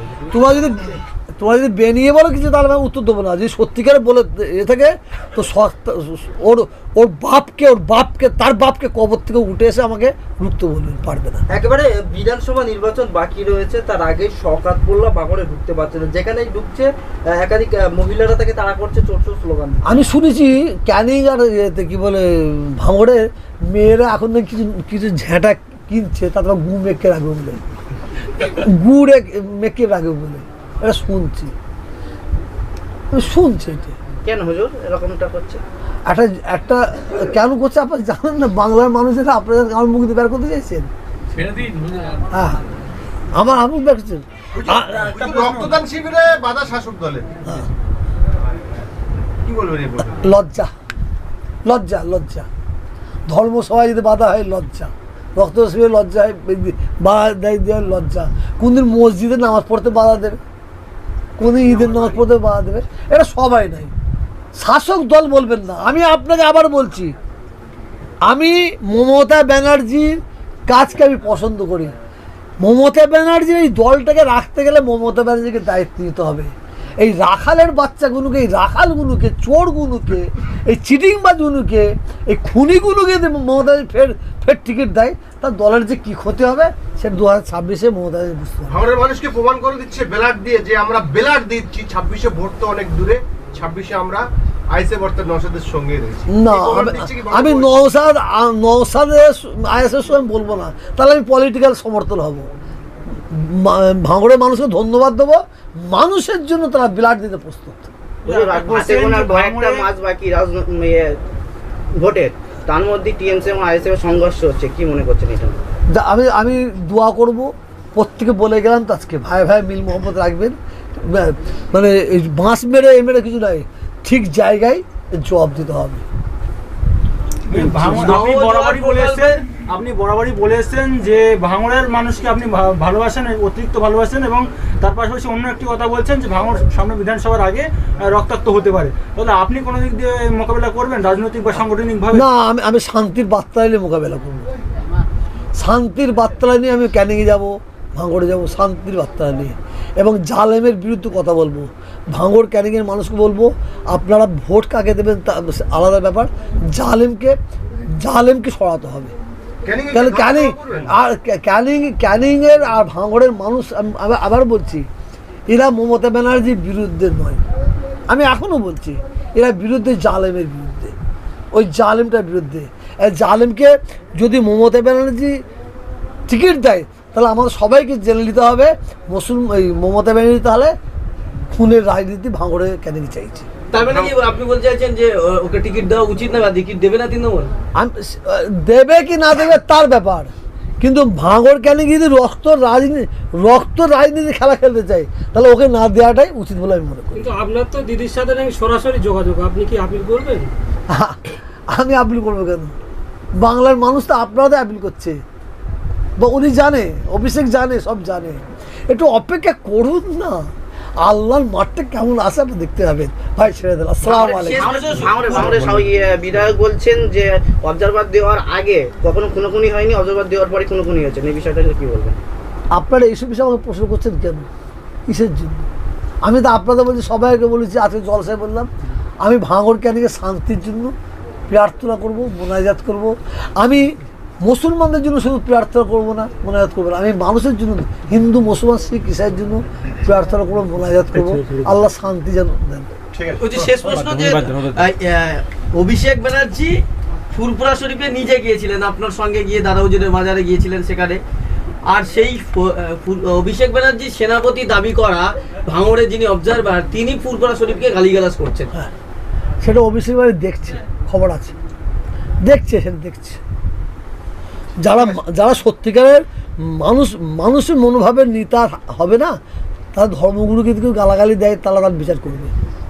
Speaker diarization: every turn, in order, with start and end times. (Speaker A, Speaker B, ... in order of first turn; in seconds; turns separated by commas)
Speaker A: 0.3-11.4, Speaker B: 11.5-19.9, Speaker A: 19.8-27.6, Speaker A: 28.4-31.5, Speaker A: 33.1-33.9, Speaker C: 34.2-35.6, Speaker A: 36.1-40.9, Speaker A: 42.3-42.6, Speaker A: 43.3-45.2, Speaker D: 44.5-47.3, Speaker E: 45.1-45.8, Speaker D: 49.5-50.2, Speaker A: 50.2-50.7, Speaker A: 51.6-52.5, Speaker A: 53.3-60.4, Speaker A: 61.4-63.9, Speaker A: 64.5-67.1, Speaker A: 68.2-71.9, Speaker A: 72.6-88.8, Speaker D: 88.7-97.9, Speaker A: 96.3-102.5, Speaker A: 103.3-107.9, Speaker C: 108.2-111.2, Speaker E: 108.2-109.8, Speaker C: 112.0-115.5, Speaker A: 115.9-126.0, Speaker E: 127.5-142.2, Speaker F: 127.5-129.4, Speaker A: 142.1-144.4, Speaker A: 145.6-157.3, Speaker A: 158.0-159.1, Speaker D: 159.6-160.9, Speaker A: 159.9-164.8, Speaker A: 165.5-167.4, Speaker A: 168.1-170.9, Speaker A: 171.5-175.4, Speaker A: 176.3-180.7, Speaker A: 181.5-183.5, Speaker F: 183.7-187.5, Speaker A: 187.8-197.3, Speaker G: 197.1-200.5, Speaker A: 200.9-201.2, Speaker A: 201.7-202.7, Speaker A: 203.4-205.2, Speaker A: 206.2-210.4, Speaker A: 211.0-214.7, Speaker F: 214.0-215.6, Speaker C: 214.4-222.2, Speaker A: 222.7-224.4, Speaker A: 225.1-225.7, Speaker A: 226.2-228.7, Speaker A: 229.2-230.9, Speaker A: 231.5-242.9, Speaker D: 243.1-243.7, Speaker F: 243.3-251.2, Speaker F: 251.9-258.7, Speaker A: 259.6-261.5, Speaker A: 262.4-263.4, Speaker A: 264.8-269.3, Speaker A: 269.9-272.5